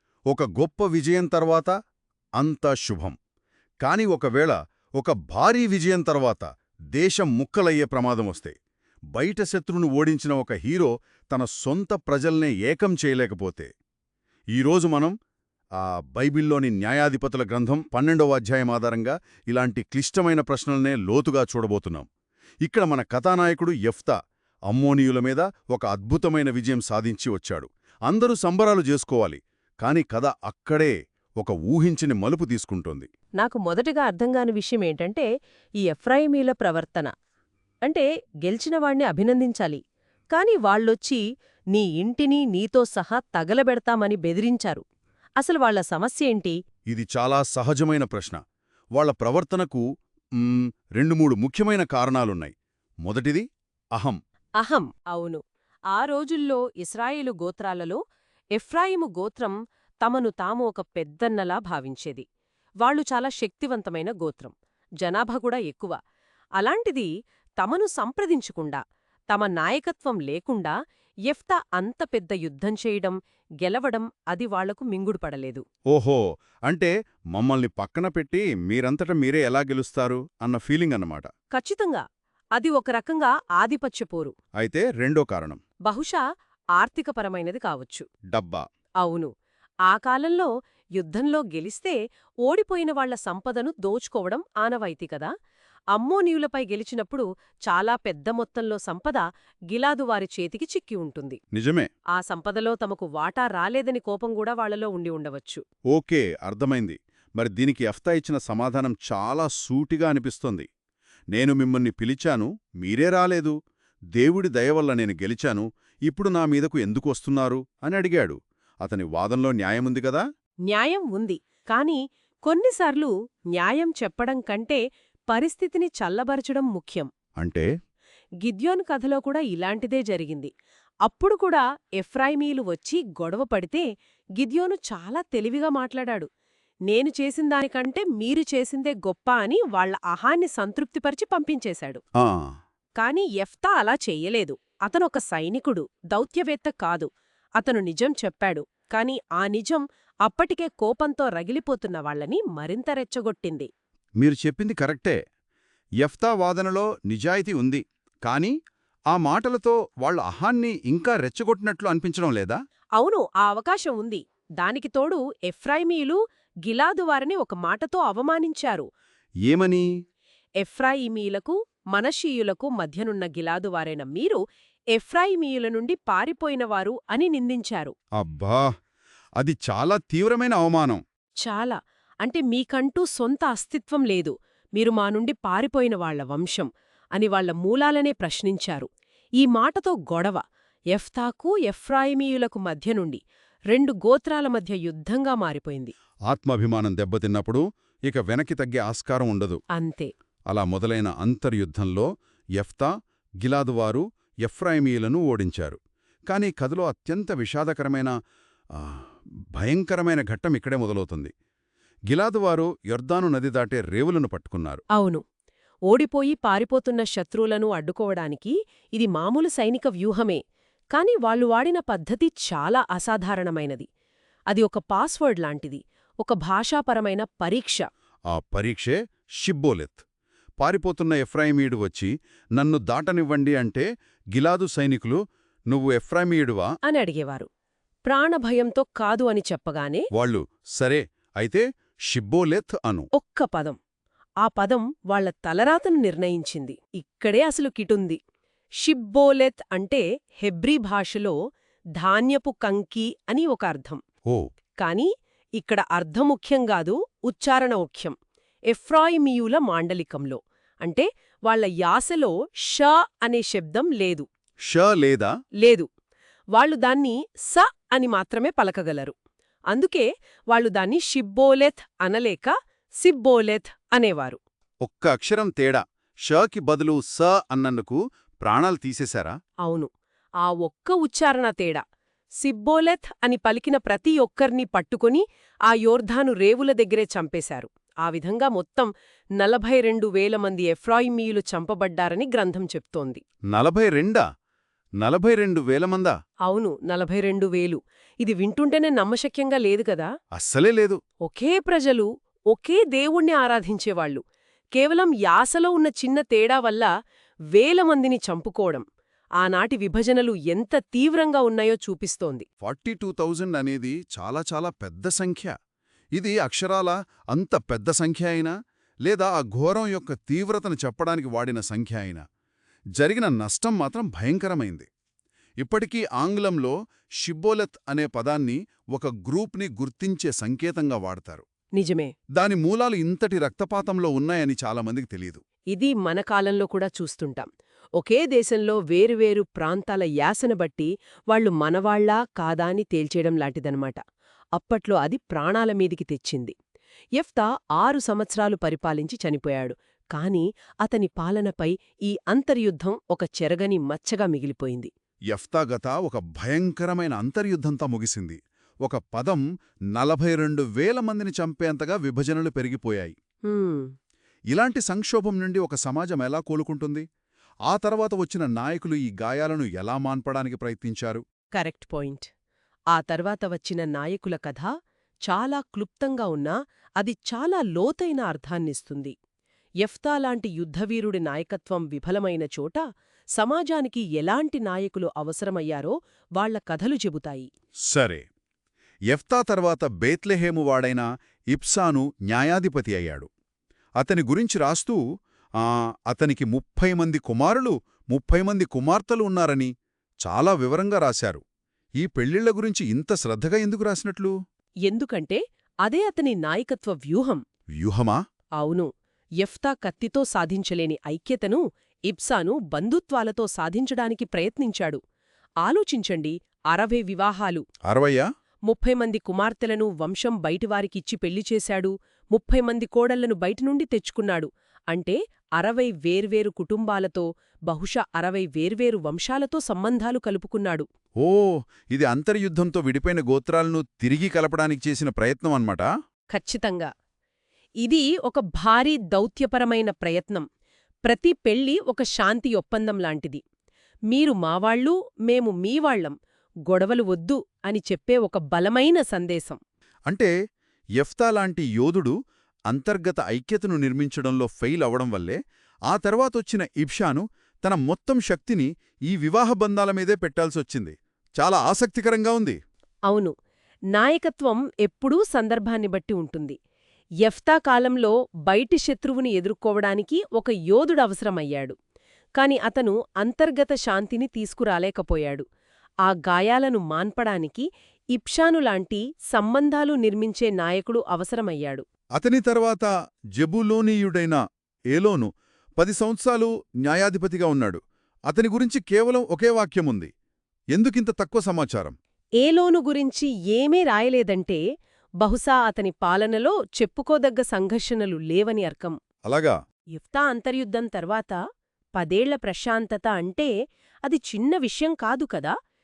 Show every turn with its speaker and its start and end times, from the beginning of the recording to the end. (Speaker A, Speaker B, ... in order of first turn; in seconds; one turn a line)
Speaker A: 0.3-1.7
Speaker A: 2.4-3.2
Speaker A: 3.8-8.6
Speaker A: 9.1-13.7
Speaker A: 14.6-15.1
Speaker A: 15.8-22.1
Speaker A: 22.6-24.2
Speaker A: 24.7-33.1
Speaker B: 33.4-35.3
Speaker B: 35.8-37.1
Speaker B: 37.8-39.8
Speaker B: 40.3-44.8
Speaker B: 45.4-46.6
Speaker A: 46.9-48.4
Speaker A: 49.0-49.8
Speaker A: 50.4-52.5
Speaker A: 53.0-54.2
Speaker B: 54.6-55.4
Speaker B: 55.9-58.0
Speaker B: 58.5-62.2
Speaker B: 62.8-66.0
Speaker B: 66.6-67.1
Speaker B: 67.6-68.8
Speaker B: 69.3-70.8
Speaker B: 71.3-75.6
Speaker A: 75.9-81.3
Speaker B: 81.5-82.0
Speaker B: 82.6-84.3
Speaker A: 84.6-85.6
Speaker B: 85.9-86.2
Speaker B: 86.8-88.1
Speaker A: 88.3-88.6
Speaker B: 89.0-89.3
Speaker B: 89.9-95.3
Speaker B: 96.0-101.4
Speaker A: 101.5-101.9
Speaker B: 102.1-105.6
Speaker A: 105.9-110.7
Speaker A: 111.3-113.6
Speaker A: 114.2-120.2
Speaker B: 120.7-127.1
Speaker A: 127.4-127.7
Speaker B: 128.4-130.5
Speaker B: 131.1-133.9
Speaker B: 134.4-136.3
Speaker B: 136.9-142.0
Speaker A: 142.2-142.5
Speaker B: 143.0-153.7
Speaker A: 154.2-155.2
Speaker A: 156.0-158.6
Speaker A: 159.1-162.6
Speaker B: 163.0-168.9
Speaker A: 169.5-169.9
Speaker B: 170.6-174.4
Speaker B: 174.9-177.9
Speaker A: 178.2-178.7
Speaker A: 179.4-181.0
Speaker B: 181.4-188.9
Speaker B: 189.4-190.4
Speaker B: 190.9-193.2
Speaker B: 193.7-195.9
Speaker A: 196.3-199.6
Speaker B: 199.8-200.1
Speaker A: 200.5-202.1
Speaker A: 202.6-202.9
Speaker A: 203.4-208.1
Speaker A: 209.6-211.3
Speaker A: 212.1-214.8
Speaker B: 214.9-215.2
Speaker B: 215.9-220.4
Speaker B: 220.9-223.9
Speaker B: 224.5-227.8
Speaker A: 228.3-230.0
Speaker A: 230.6-235.2
Speaker A: 235.7-236.7
Speaker B: 236.9-237.5
Speaker B: 238.1-240.1
Speaker A: 240.1-243.1
Speaker B: 243.2-243.8
Speaker B: 244.4-248.2
Speaker B: 248.8-251.3
Speaker B: 252.0-254.0
Speaker B: 254.8-258.2
Speaker B: 258.7-264.3
Speaker A: 264.7-265.3
Speaker B: 265.6-265.9
Speaker B: 266.5-269.1
Speaker B: 269.7-274.4
Speaker A: 274.8-279.3
Speaker B: 279.6-279.9
Speaker B: 280.4-281.8
Speaker B: 282.4-293.2
Speaker A: 293.5-294.2
Speaker A: 295.0-296.1
Speaker B: 296.5-300.1
Speaker A: 300.4-301.0
Speaker B: 301.2-304.2
Speaker B: 304.8-306.9
Speaker B: 307.5-308.9
Speaker B: 309.4-312.5
Speaker A: 312.6-315.5
Speaker A: 316.2-318.5
Speaker A: 319.1-322.2
Speaker A: 323.0-324.9
Speaker A: 325.6-331.4
Speaker B: 331.8-332.1
Speaker A: 332.4-335.4
Speaker B: 335.7-337.5
Speaker B: 338.0-344.0
Speaker B: 344.6-346.6
Speaker B: 347.2-354.9
Speaker A: 355.3-359.4
Speaker A: 359.9-363.1
Speaker B: 363.5-363.9
Speaker A: 364.5-367.1
Speaker A: 367.7-371.2
Speaker B: 371.6-372.3
Speaker B: 372.9-374.7
Speaker B: 375.3-379.1
Speaker B: 379.8-382.8
Speaker B: 383.4-387.5
Speaker A: 387.9-388.2
Speaker A: 389.1-393.3
Speaker A: 394.0-395.0
Speaker A: 395.6-399.7
Speaker A: 400.2-401.4
Speaker A: 402.0-404.3
Speaker B: 404.9-407.4
Speaker A: 407.8-408.2
Speaker B: 408.6-408.9
Speaker B: 409.4-415.0
Speaker B: 415.6-417.6
Speaker A: 417.9-418.2
Speaker B: 418.7-430.9
Speaker A: 431.2-435.9
Speaker B: 436.3-436.9
Speaker B: 437.8-440.4
Speaker B: 441.1-443.4
Speaker B: 444.1-446.2
Speaker B: 446.7-449.6
Speaker A: 451.0-452.1
Speaker A: 452.7-462.6
Speaker B: 463.1-463.3
Speaker B: 463.9-466.6
Speaker B: 467.2-471.8
Speaker B: 472.4-475.4
Speaker B: 476.1-481.8
Speaker A: 482.2-484.4
Speaker A: 484.9-490.1
Speaker A: 490.7-491.9
Speaker B: 492.4-494.6
Speaker B: 495.2-499.0
Speaker A: 499.3-499.6
Speaker B: 499.9-501.4
Speaker B: 502.0-503.5
Speaker B: 504.1-505.5